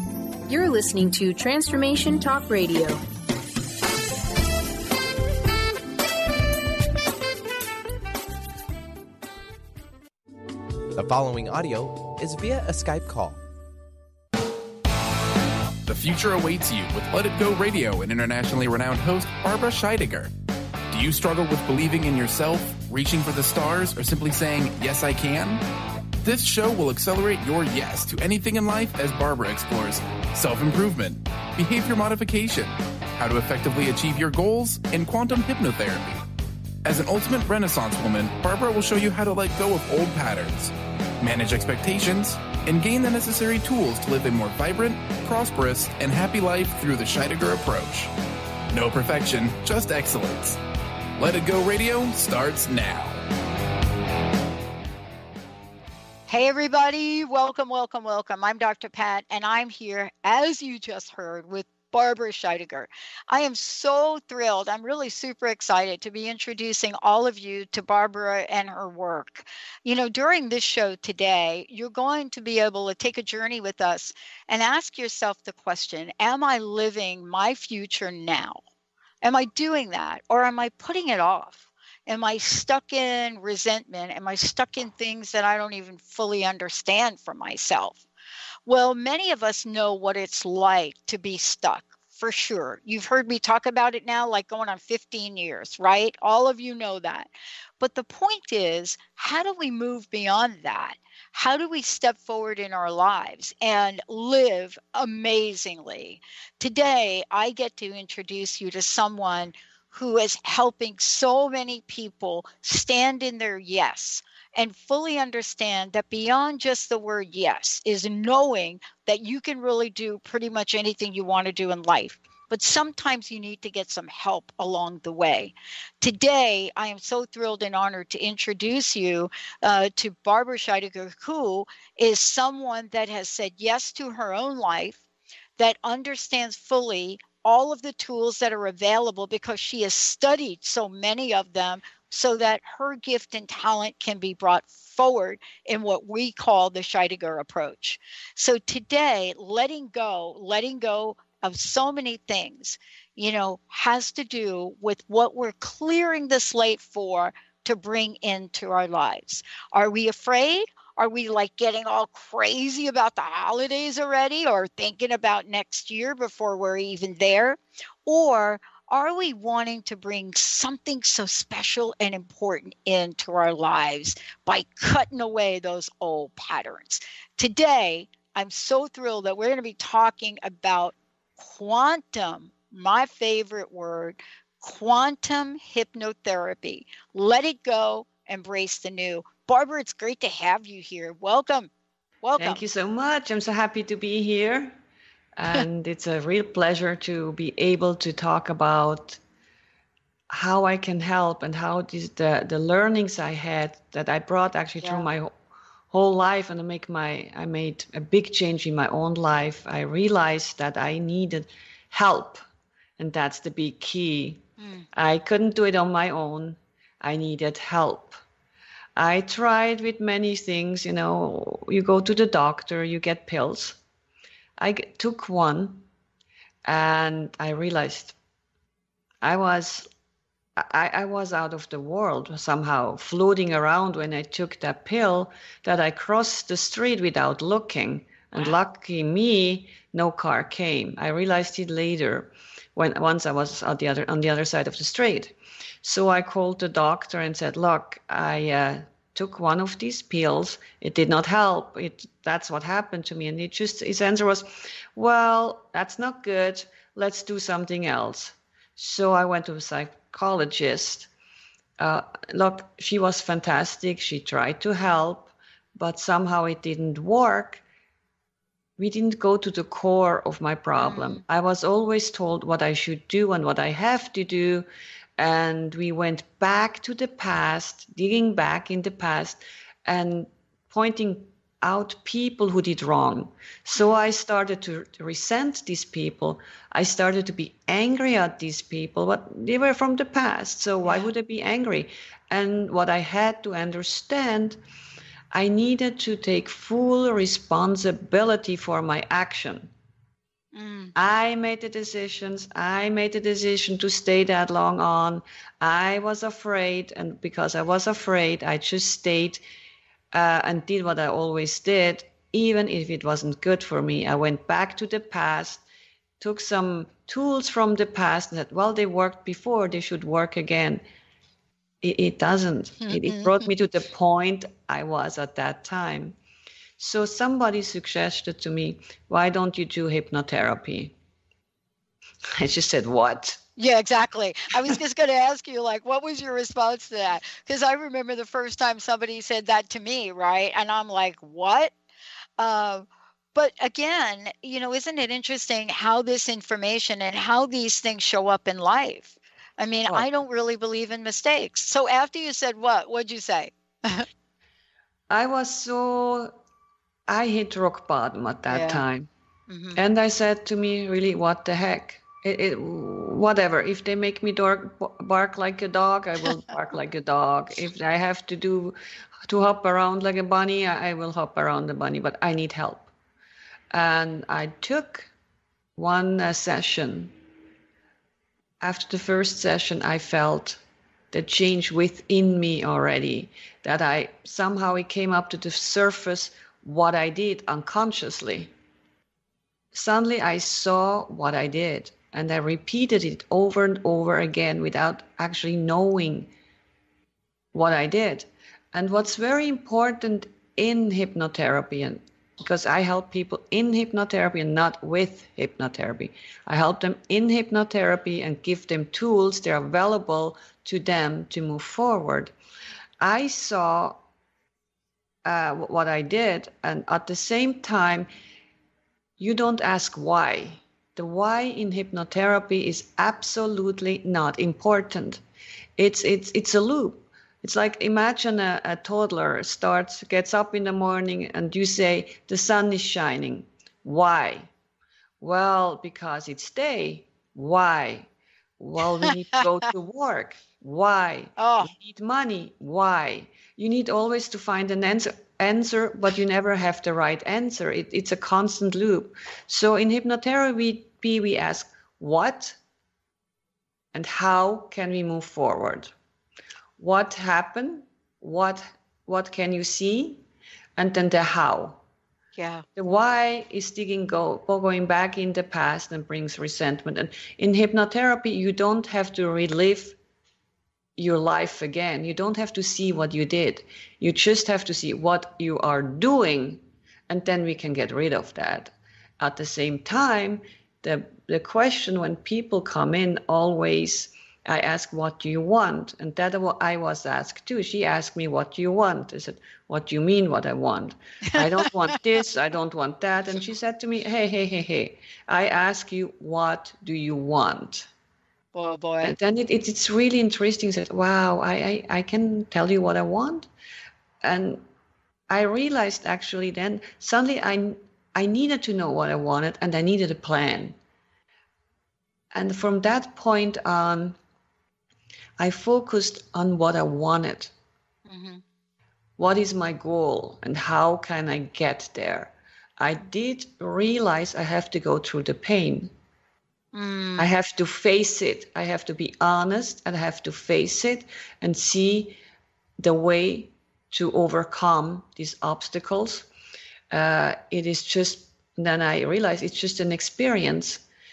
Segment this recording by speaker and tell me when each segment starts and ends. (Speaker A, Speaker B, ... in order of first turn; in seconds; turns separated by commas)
Speaker A: 0.5-3.0, Speaker B: 10.9-13.4, Speaker C: 15.8-20.3, Speaker C: 20.9-25.6, Speaker C: 26.2-36.2, Speaker C: 36.8-48.1, Speaker C: 48.7-50.6, Speaker C: 51.2-53.2, Speaker D: 56.3-78.6, Speaker D: 79.2-88.0, Speaker D: 88.7-135.0, Speaker D: 135.6-191.7, Speaker D: 192.2-192.6, Speaker E: 192.4-194.8, Speaker E: 195.4-199.2, Speaker E: 200.3-205.3, Speaker E: 205.9-212.4, Speaker E: 213.0-218.2, Speaker D: 214.6-214.8, Speaker E: 218.9-223.8, Speaker E: 224.6-225.8, Speaker E: 226.6-228.2, Speaker E: 229.2-229.9, Speaker E: 230.6-261.1, Speaker E: 261.8-267.6, Speaker E: 268.8-294.6, Speaker D: 270.8-271.2, Speaker E: 295.3-299.7, Speaker D: 300.5-300.9, Speaker E: 300.9-309.4, Speaker E: 310.1-315.6, Speaker E: 316.2-320.8, Speaker E: 321.8-326.1, Speaker D: 322.8-323.4, Speaker E: 326.8-330.9, Speaker E: 332.3-333.4, Speaker D: 333.6-341.7, Speaker D: 342.4-354.1, Speaker E: 355.1-356.3, Speaker E: 357.1-359.1, Speaker D: 358.5-358.8, Speaker D: 359.5-359.8, Speaker E: 359.7-372.9, Speaker E: 373.7-375.1, Speaker E: 375.8-377.1, Speaker E: 378.6-380.6, Speaker E: 381.1-388.5, Speaker E: 389.7-396.3, Speaker E: 397.5-412.3, Speaker E: 413.0-414.0, Speaker E: 415.2-418.1, Speaker E: 419.2-425.2, Speaker E: 425.8-434.5, Speaker E: 435.2-452.6, Speaker D: 441.4-441.7, Speaker E: 453.9-455.9, Speaker E: 456.8-460.2, Speaker E: 460.8-461.8, Speaker D: 462.4-462.6, Speaker E: 462.8-469.9, Speaker E: 471.0-497.9, Speaker D: 491.4-491.7, Speaker D: 498.5-499.1, Speaker E: 499.0-503.5, Speaker E: 504.2-504.6, Speaker E: 505.3-510.8, Speaker E: 512.3-514.2, Speaker E: 515.4-517.5, Speaker D: 518.1-518.4, Speaker E: 519.2-525.9, Speaker D: 526.7-527.3, Speaker E: 527.2-532.2, Speaker E: 532.8-536.3, Speaker E: 536.9-540.8